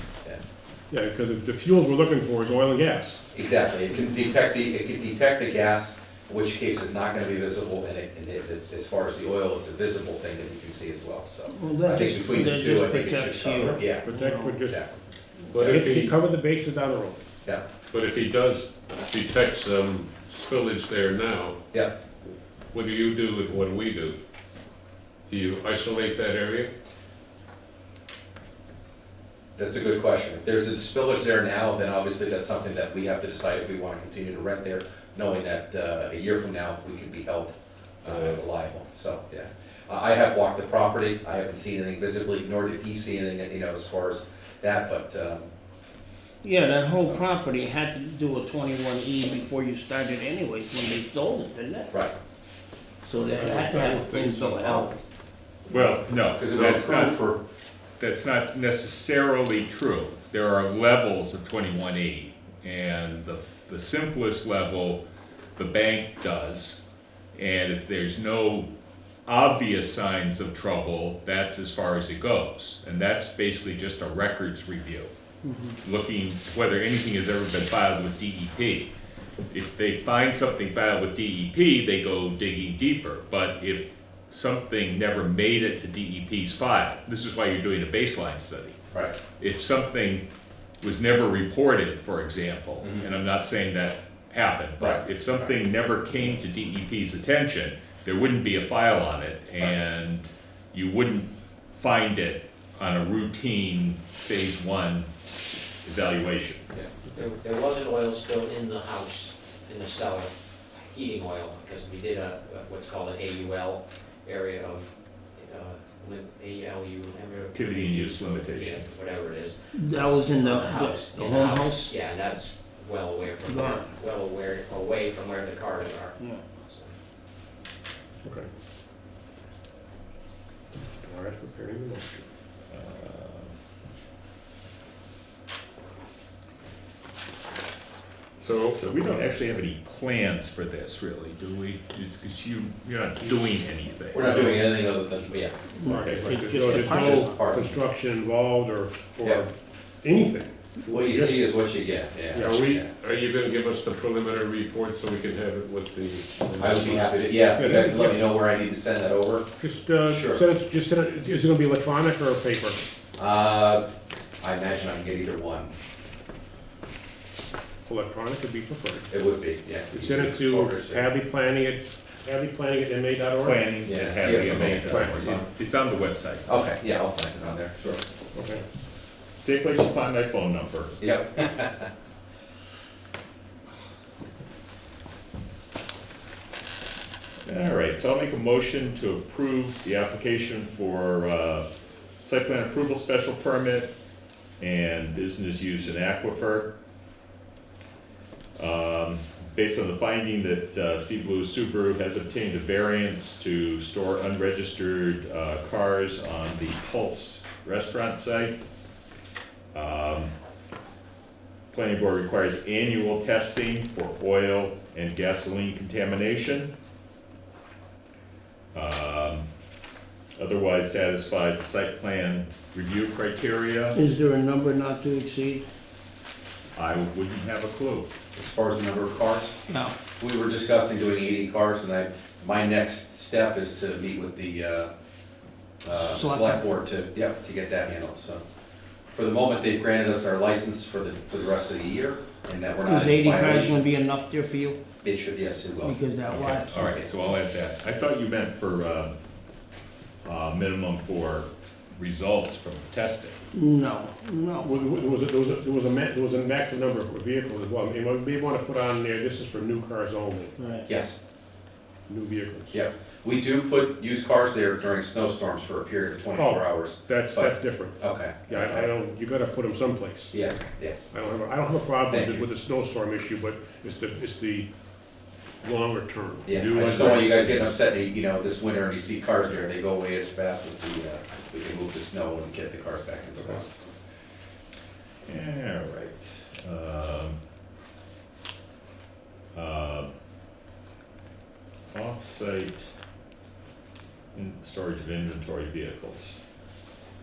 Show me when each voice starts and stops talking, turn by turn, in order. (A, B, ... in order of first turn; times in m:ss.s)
0:00.9-0:03.2 A
0:03.3-0:14.1 B
0:11.5-0:14.6 C
0:14.0-0:14.9 A
0:14.6-0:15.0 B
0:15.5-0:16.2 D
0:15.6-0:17.2 A
0:17.9-0:21.6 D
0:22.7-0:24.2 D
0:25.2-0:26.7 D
0:29.6-0:45.5 B
0:38.0-0:38.4 D
0:46.4-0:51.9 C
0:53.0-0:55.0 C
0:53.4-0:54.9 D
0:55.7-0:57.4 B
0:55.7-0:57.2 E
0:58.0-1:05.0 E
1:05.6-1:06.8 E
1:07.3-1:08.7 E
1:09.2-1:15.1 E
1:15.4-1:15.8 C
1:15.8-1:18.9 E
1:19.5-1:28.8 E
1:29.3-1:30.2 E
1:30.8-1:45.1 E
1:32.8-1:33.1 B
1:34.8-1:35.6 B
1:45.8-1:46.7 E
1:46.7-2:06.9 F
1:57.5-1:58.8 E
1:59.7-2:01.9 C
2:03.4-2:03.9 C
2:08.2-2:08.5 A
2:11.0-2:12.3 A
2:12.7-2:13.6 E
2:18.4-2:24.5 E
2:18.5-2:19.1 D
2:24.1-2:25.6 B
2:24.3-2:24.6 A
2:25.8-2:27.5 C
2:25.8-2:31.4 A
2:25.9-2:26.4 E
2:26.5-2:27.7 B
2:30.8-2:32.9 B
2:32.3-2:32.6 A
2:32.4-2:37.2 D
2:36.6-2:39.5 B
2:37.6-2:38.2 A
2:39.6-2:42.8 A
2:40.0-2:40.4 B
2:43.2-2:43.8 B
2:44.4-2:45.7 B
2:47.8-2:49.1 A
2:49.1-2:51.0 B
2:49.9-2:53.7 A
2:53.4-2:56.5 E
2:53.8-2:55.5 B
2:54.3-2:55.4 A
2:56.5-2:58.0 B
2:58.3-2:58.6 A
2:59.4-3:01.0 E
3:01.0-3:01.9 B
3:07.4-3:11.7 E
3:12.2-3:13.9 E
3:14.6-3:16.7 E
3:18.6-3:28.6 E
3:29.7-3:30.3 E
3:31.7-3:36.7 E
3:38.7-3:39.5 E
3:40.4-3:44.0 E
3:43.9-3:45.6 C
3:46.7-3:48.1 E
3:48.4-3:49.5 B
3:49.7-3:49.9 C
3:50.2-3:54.9 B
3:55.8-3:58.4 B
3:55.9-3:56.6 C
3:59.1-4:03.8 B
4:02.8-4:04.8 C
4:05.0-4:06.0 B
4:05.8-4:06.7 C
4:06.3-4:09.2 E
4:06.5-4:07.0 B
4:10.2-4:13.4 E
4:13.5-4:14.9 C
4:14.6-4:20.5 A
4:20.6-4:20.9 C
4:20.8-4:21.2 B
4:22.1-4:22.8 A
4:22.7-4:28.9 B
4:26.3-4:30.3 A
4:30.3-4:31.1 B
4:31.1-4:34.7 A
4:32.1-4:32.4 B
4:35.6-4:36.5 A
4:36.5-4:43.9 B
4:36.5-4:37.7 E
4:45.2-4:47.4 E
4:49.5-4:50.1 E
4:51.9-4:52.9 E
4:54.3-4:56.4 E